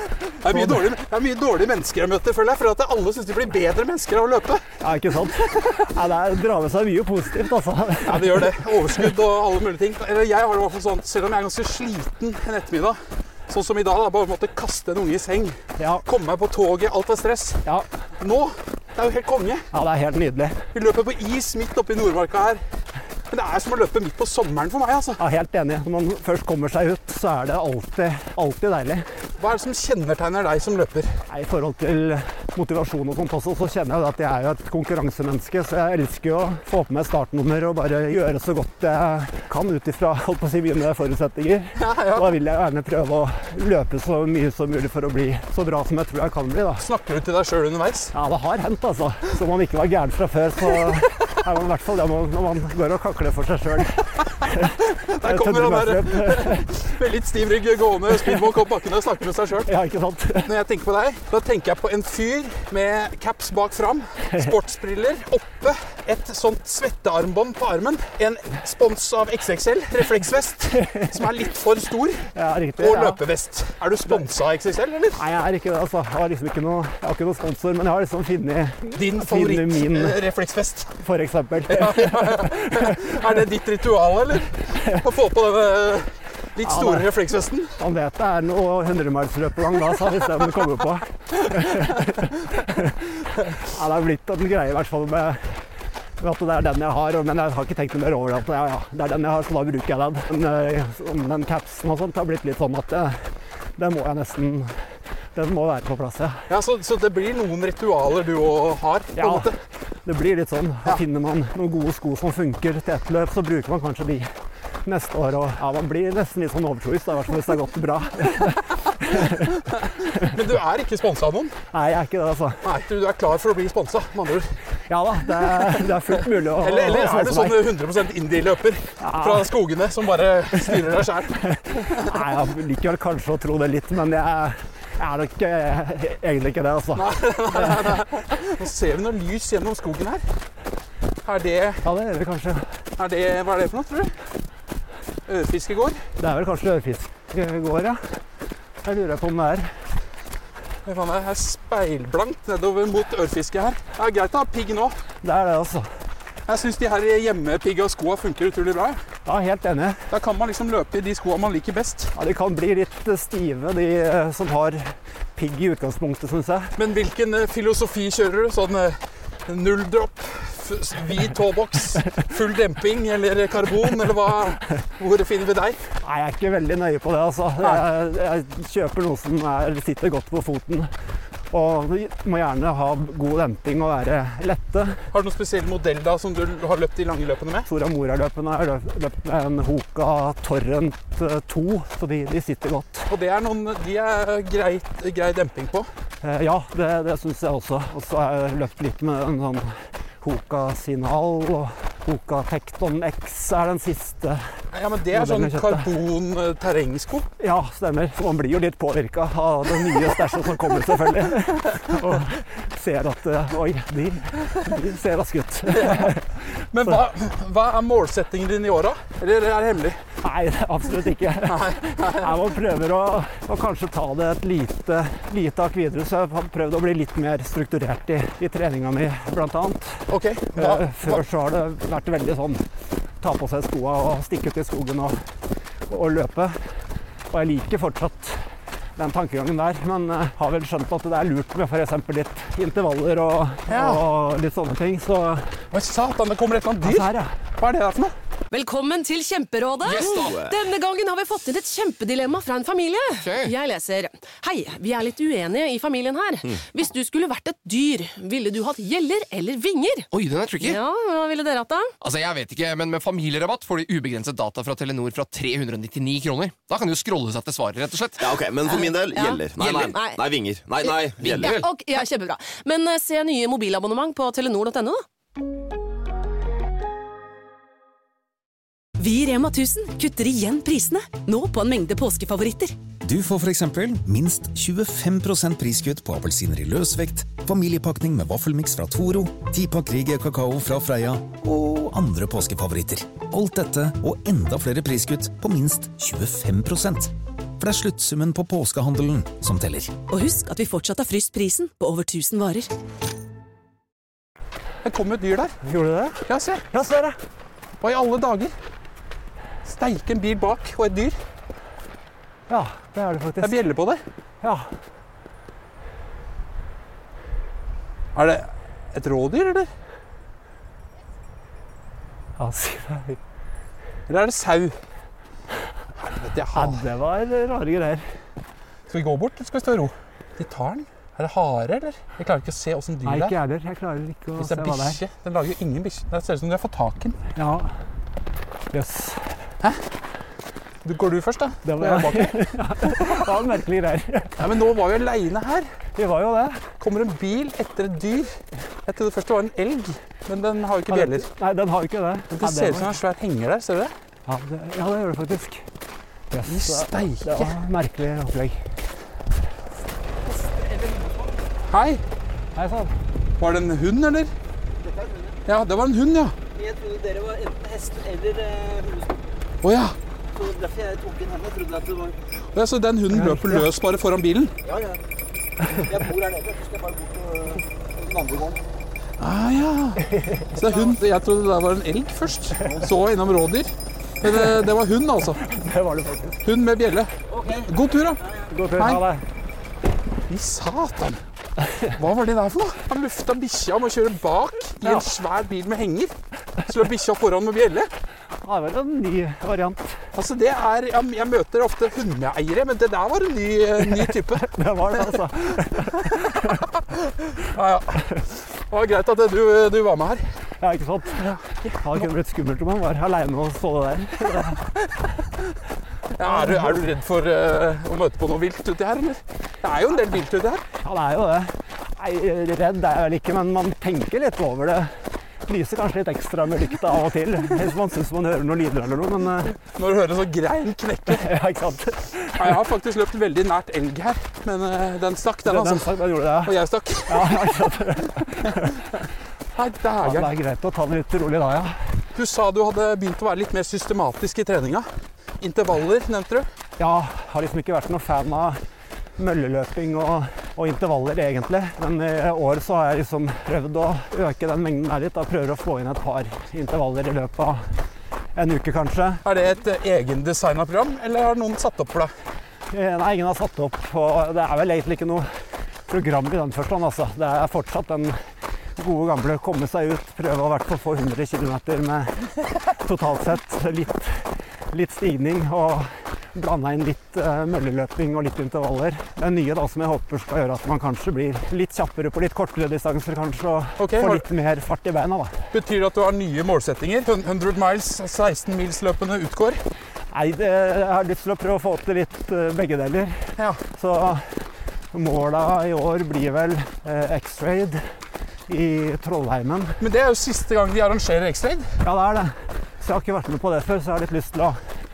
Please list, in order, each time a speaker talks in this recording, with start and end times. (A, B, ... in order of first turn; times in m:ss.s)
0:00.4-0:04.6 A
0:00.5-0:00.8 B
0:04.8-0:09.0 B
0:08.0-0:17.6 A
0:15.8-0:16.0 B
0:18.2-0:19.7 A
0:19.7-0:20.6 B
0:20.7-0:22.6 A
0:23.3-0:25.2 A
0:25.2-0:29.0 B
0:29.4-0:31.1 A
0:31.3-0:46.8 B
0:41.8-0:42.3 A
0:46.8-0:48.1 A
0:48.1-0:54.7 B
0:54.5-0:59.7 A
0:55.2-0:56.7 B
0:59.6-1:00.5 B
1:00.4-1:15.2 A
1:10.8-1:11.1 B
1:12.3-1:13.2 B
1:15.2-1:20.2 B
1:18.9-1:20.9 A
1:21.0-1:23.2 B
1:21.7-1:27.7 A
1:26.6-1:27.1 B
1:27.8-1:35.6 B
1:36.2-1:43.2 B
1:43.8-1:44.7 B
1:45.3-1:46.4 B
1:46.5-1:49.5 A
1:49.2-1:49.5 B
1:50.0-1:54.3 B
1:54.8-1:59.6 B
1:59.2-2:01.5 A
2:01.7-2:02.6 B
2:02.6-2:04.5 A
2:04.9-2:07.7 B
2:06.5-2:12.2 A
2:09.0-2:09.5 B
2:11.5-2:17.9 B
2:16.9-2:20.2 A
2:21.2-2:21.8 A
2:21.8-2:22.6 B
2:23.0-2:24.1 A
2:25.2-2:26.0 A
2:26.2-2:28.0 B
2:28.8-2:29.7 B
2:30.8-2:35.0 A
2:35.2-2:35.9 B
2:36.5-2:39.0 A
2:39.2-2:40.0 B
2:40.1-2:42.1 A
2:42.1-2:46.7 B
2:46.8-2:55.8 A
2:56.0-3:00.9 B
3:01.5-3:05.0 B
3:05.1-3:07.7 A
3:07.7-3:13.1 B
3:13.1-3:15.9 A
3:16.2-3:24.4 B
3:24.7-3:27.3 A
3:25.1-3:25.9 B
3:27.4-3:36.2 B
3:35.6-3:40.0 A
3:40.2-3:52.6 B
3:41.4-3:42.4 A
3:50.1-3:51.2 A
3:53.2-3:55.2 B
3:55.9-3:56.6 B
3:57.3-3:58.4 B
3:59.0-4:05.5 B
4:03.7-4:04.0 A
4:05.7-4:08.1 A
4:06.8-4:07.3 B
4:08.5-4:20.1 C
4:09.8-4:10.4 D
4:10.2-4:10.5 E
4:13.2-4:13.5 D
4:20.1-4:20.8 D
4:20.6-4:21.9 C
4:22.0-4:28.3 D
4:28.2-4:31.6 E
4:28.7-4:30.2 C
4:29.6-4:29.9 D
4:30.8-4:35.0 C
4:31.2-4:31.6 D
4:39.0-4:42.8 F
4:43.0-5:00.0 G
5:00.1-5:02.7 F
5:04.8-5:05.5 A
5:05.6-5:07.2 B
5:06.2-5:06.6 A
5:07.8-5:08.5 A
5:09.6-5:11.2 A
5:12.5-5:13.6 B
5:13.4-5:14.0 A
5:14.4-5:14.7 B
5:18.1-5:19.7 A
5:22.4-5:23.2 B
5:24.1-5:24.8 A
5:26.0-5:26.8 A
5:26.5-5:28.0 B
5:28.9-5:33.3 A
5:33.0-5:35.0 B
5:34.4-5:37.2 A
5:37.3-5:37.8 B
5:38.7-5:39.2 B
5:40.8-5:43.2 A
5:41.6-5:44.3 B
5:44.4-5:45.7 A
5:46.0-5:46.6 B
5:46.8-5:51.3 A
5:50.9-5:53.0 B
5:52.3-5:53.9 A
5:54.2-5:55.6 B
5:56.3-5:58.6 B
5:56.4-5:57.5 A
6:00.2-6:01.4 H
6:01.7-6:02.0 A
6:02.5-6:02.9 B
6:03.4-6:04.3 A
6:04.8-6:05.3 H
6:05.4-6:06.4 A
6:06.5-6:09.3 H
6:09.6-6:10.0 A
6:10.3-6:12.2 H
6:12.5-6:14.5 A
6:13.1-6:13.7 B
6:14.6-6:15.0 H
6:15.8-6:18.6 H
6:19.2-6:25.5 A
6:20.0-6:20.5 B
6:22.6-6:22.9 H
6:25.4-6:26.4 B
6:26.4-6:27.1 A
6:27.3-6:27.6 H
6:27.6-6:28.2 A
6:28.5-6:29.2 B
6:28.8-6:29.0 A
6:30.3-6:31.2 A
6:31.9-6:37.9 A
6:38.4-6:40.0 B
6:40.1-6:50.2 A
6:44.0-6:46.6 B
6:50.6-6:54.6 B
6:51.2-6:52.0 A
6:56.1-7:00.6 A
6:56.2-6:56.8 B
7:00.8-7:04.9 B
7:05.4-7:09.6 B
7:09.7-7:11.3 A
7:11.1-7:12.5 B
7:12.3-7:17.7 A
7:15.4-7:18.8 B
7:18.4-7:18.8 A
7:19.6-7:20.3 A
7:20.0-7:21.8 B
7:22.1-7:24.9 A
7:25.4-7:26.5 A
7:26.8-7:28.6 B
7:29.2-7:37.6 B
7:38.3-7:39.2 B
7:39.2-7:42.1 A
7:42.7-7:45.3 B
7:45.9-7:48.2 B
7:48.8-8:05.4 B
8:03.8-8:04.2 A
8:05.5-8:09.6 A
8:10.1-8:14.2 B
8:14.9-8:17.8 B
8:18.5-8:19.8 B
8:19.8-8:21.7 A
8:21.8-8:24.6 B